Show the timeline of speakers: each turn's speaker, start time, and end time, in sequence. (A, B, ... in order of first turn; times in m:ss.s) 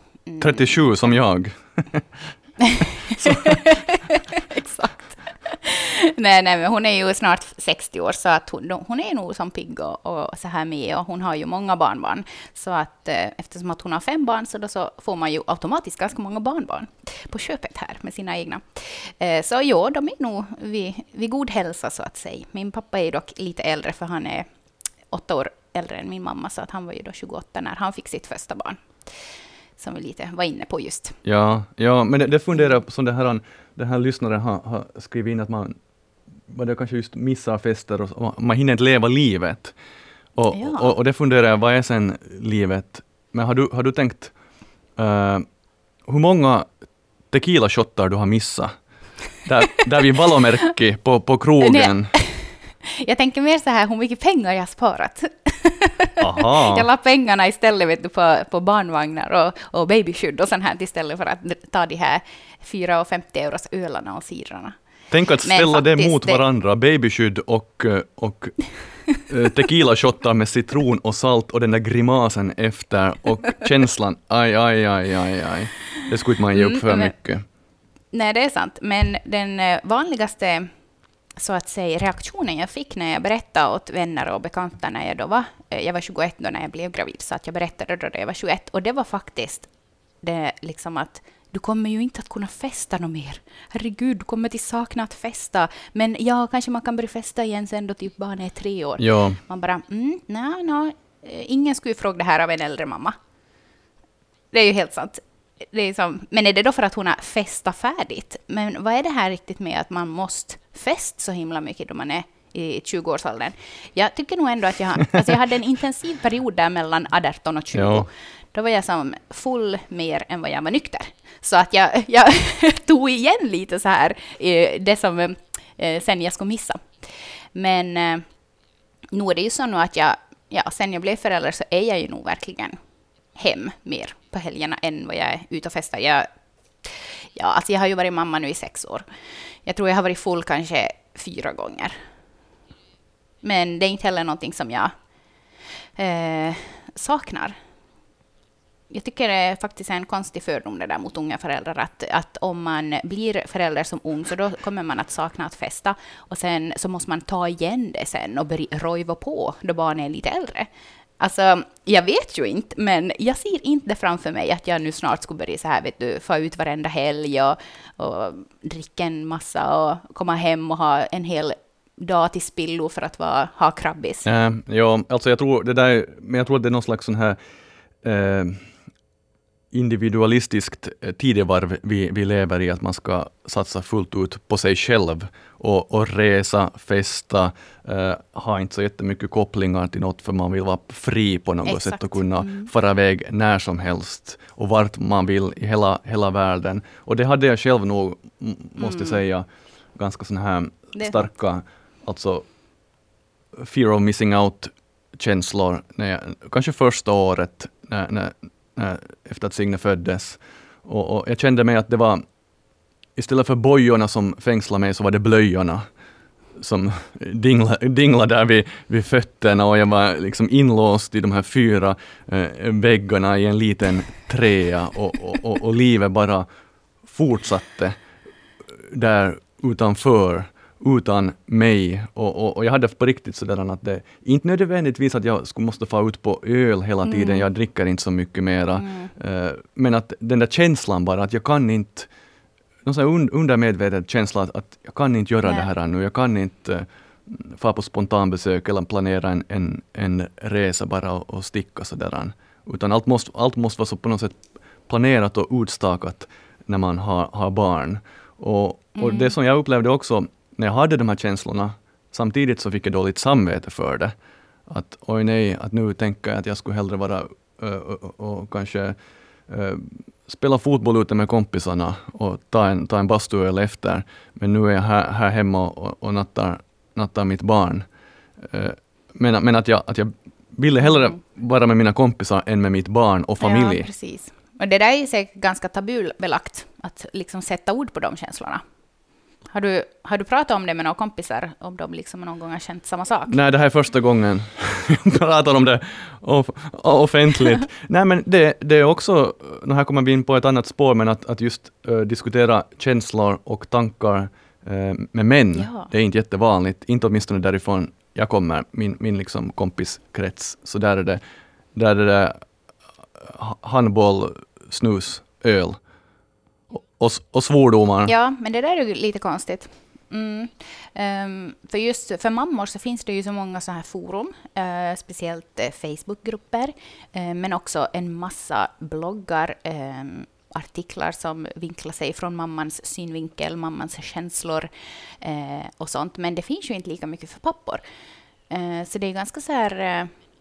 0:00.3-0:01.1 A
0:00.4-0:02.3 B
0:02.6-0:24.5 A
0:03.2-0:03.8 B
0:25.1-0:28.9 A
0:29.8-0:31.2 A
0:31.2-0:35.8 B
0:36.5-0:39.8 B
0:40.4-0:44.3 B
0:40.5-0:40.9 A
0:45.0-0:45.5 B
0:46.1-0:46.7 B
0:47.3-0:48.8 B
0:49.4-0:52.1 B
0:51.6-1:04.8 A
0:56.2-0:56.9 B
1:05.1-1:17.4 B
1:05.4-1:06.4 A
1:16.5-1:17.1 A
1:18.1-1:20.7 A
1:21.4-1:29.7 A
1:30.2-1:43.2 A
1:39.0-1:39.4 B
1:44.5-2:08.2 A
1:57.7-1:58.1 B
2:09.1-2:12.8 A
2:13.4-2:16.3 A
2:16.8-2:19.0 A
2:19.6-2:22.0 A
2:23.4-2:24.9 A
2:26.0-2:27.6 A
2:28.9-2:54.3 A
2:54.2-2:57.4 B
2:58.0-2:58.6 B
2:59.7-3:22.5 B
3:11.6-3:12.7 A
3:18.8-3:19.2 A
3:21.0-3:21.3 A
3:23.6-3:32.2 B
3:33.2-3:35.8 B
3:36.6-3:46.5 B
3:47.0-3:48.0 B
3:48.8-4:02.1 B
3:57.0-3:57.5 A
3:58.8-3:59.1 A
4:02.8-4:24.1 B
4:19.0-4:19.3 A
4:24.7-4:29.0 B
4:29.5-4:37.9 B
4:38.4-4:43.9 B
4:43.4-4:48.6 A
4:49.5-4:53.4 A
4:53.3-5:11.2 B
5:05.5-5:05.9 A
5:11.8-5:12.4 B
5:13.2-5:15.8 B
5:16.7-5:18.1 B
5:18.1-5:34.7 A
5:35.2-5:37.8 A
5:38.5-5:40.1 A